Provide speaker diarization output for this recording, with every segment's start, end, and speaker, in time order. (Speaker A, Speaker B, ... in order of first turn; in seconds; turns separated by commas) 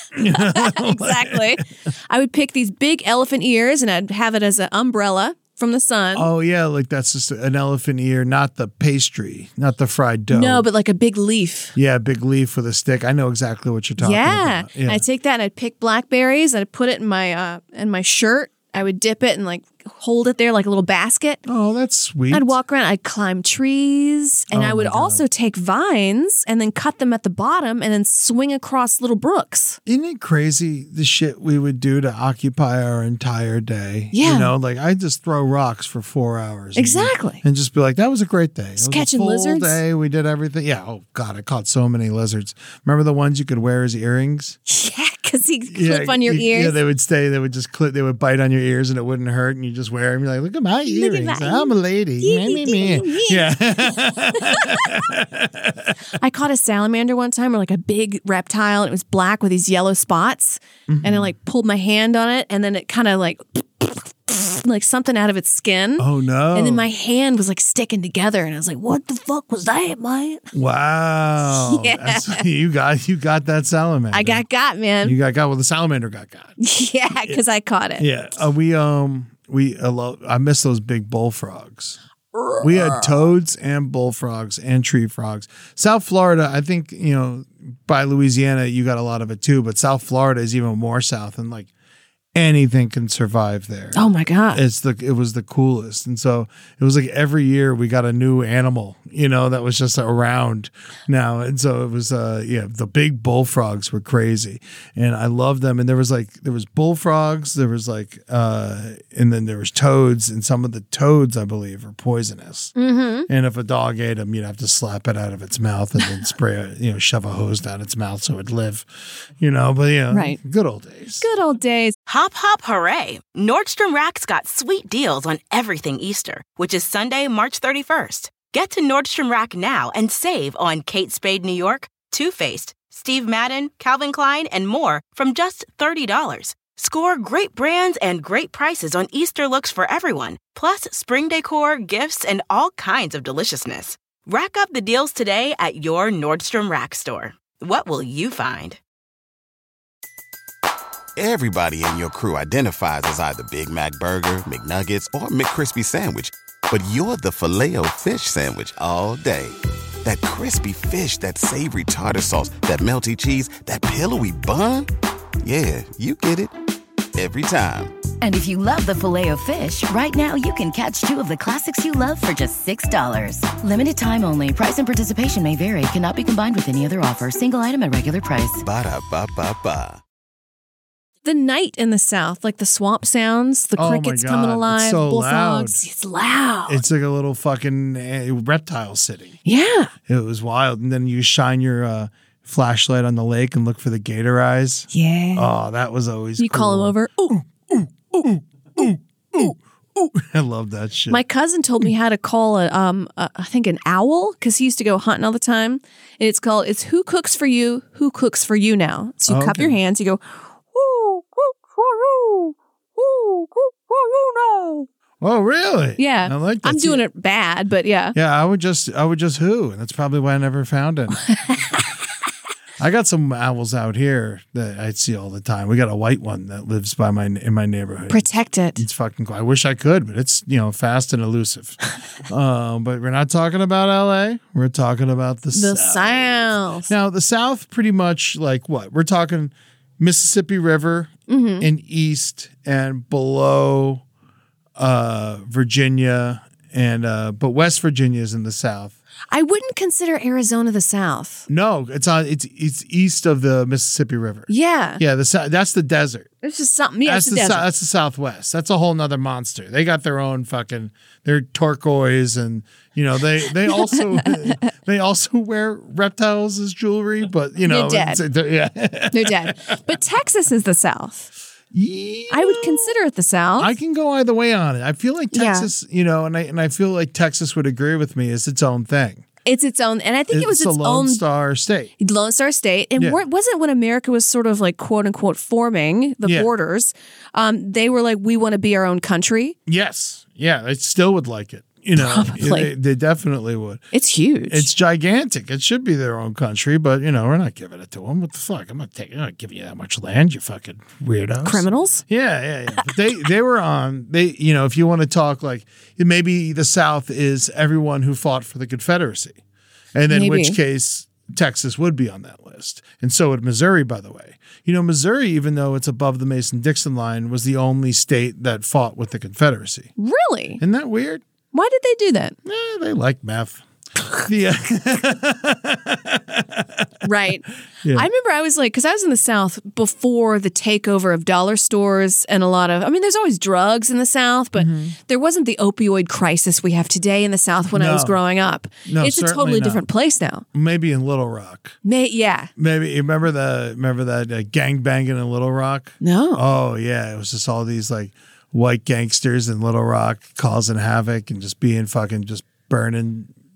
Speaker A: 0.1-1.6, Speaker B: 0.3-6.3, Speaker A: 6.1-10.7, Speaker B: 10.3-11.7, Speaker A: 11.7-15.0, Speaker B: 14.0-21.4, Speaker A: 21.5-22.6, Speaker B: 22.3-29.8, Speaker A: 24.5-25.2, Speaker A: 29.9-44.6, Speaker B: 34.1-34.5, Speaker B: 36.8-37.4, Speaker B: 38.8-39.8, Speaker B: 44.7-46.8, Speaker A: 45.7-56.0, Speaker B: 50.9-55.0, Speaker B: 56.2-70.5, Speaker A: 60.9-61.3, Speaker A: 66.0-66.8, Speaker A: 70.5-74.4, Speaker B: 71.5-72.4, Speaker B: 74.1-75.2, Speaker A: 75.0-76.5, Speaker B: 76.6-78.0, Speaker A: 78.0-82.0, Speaker B: 82.3-83.1, Speaker A: 82.6-91.7, Speaker A: 92.3-112.7, Speaker B: 93.9-94.6, Speaker B: 112.8-113.3, Speaker A: 113.3-121.3, Speaker B: 120.1-120.4, Speaker B: 121.2-121.9, Speaker C: 122.1-148.8, Speaker D: 151.2-164.9, Speaker D: 165.4-166.5, Speaker D: 167.2-167.9, Speaker E: 168.2-178.6, Speaker D: 178.6-180.0, Speaker B: 181.2-186.8, Speaker A: 183.8-185.8, Speaker A: 186.7-189.4, Speaker B: 189.4-189.9, Speaker A: 190.1-201.2, Speaker B: 194.9-195.5, Speaker B: 196.4-197.4, Speaker B: 198.8-199.5, Speaker B: 201.1-214.9, Speaker A: 209.3-209.8, Speaker A: 215.2-217.0, Speaker B: 216.0-218.1, Speaker A: 218.1-221.2, Speaker B: 221.2-221.9, Speaker A: 222.8-244.0, Speaker B: 228.1-228.8, Speaker B: 235.5-236.9, Speaker B: 241.3-241.7, Speaker A: 244.8-249.0, Speaker B: 249.3-251.5, Speaker A: 251.5-256.3, Speaker B: 254.5-255.0, Speaker B: 256.4-257.6, Speaker A: 257.0-269.8, Speaker B: 263.7-264.6, Speaker B: 267.6-268.2, Speaker B: 269.1-271.3, Speaker A: 271.7-272.9, Speaker B: 272.3-273.7, Speaker A: 273.6-279.2, Speaker B: 275.3-275.7, Speaker B: 279.4-281.2, Speaker A: 280.3-281.9, Speaker B: 282.0-289.6, Speaker A: 286.2-286.5, Speaker A: 289.7-293.8, Speaker B: 291.9-292.7, Speaker B: 293.9-294.7, Speaker A: 294.5-309.4, Speaker B: 301.4-302.0, Speaker A: 309.9-319.9, Speaker B: 310.1-310.6, Speaker B: 320.0-320.6, Speaker A: 320.6-321.2, Speaker B: 321.5-322.4, Speaker A: 322.4-323.6, Speaker A: 324.2-326.9, Speaker B: 327.0-340.4, Speaker A: 327.8-328.1, Speaker A: 334.6-334.9, Speaker A: 337.7-338.2, Speaker A: 338.9-339.8, Speaker A: 340.5-341.8, Speaker B: 341.8-342.5, Speaker A: 342.6-353.3, Speaker B: 346.0-346.4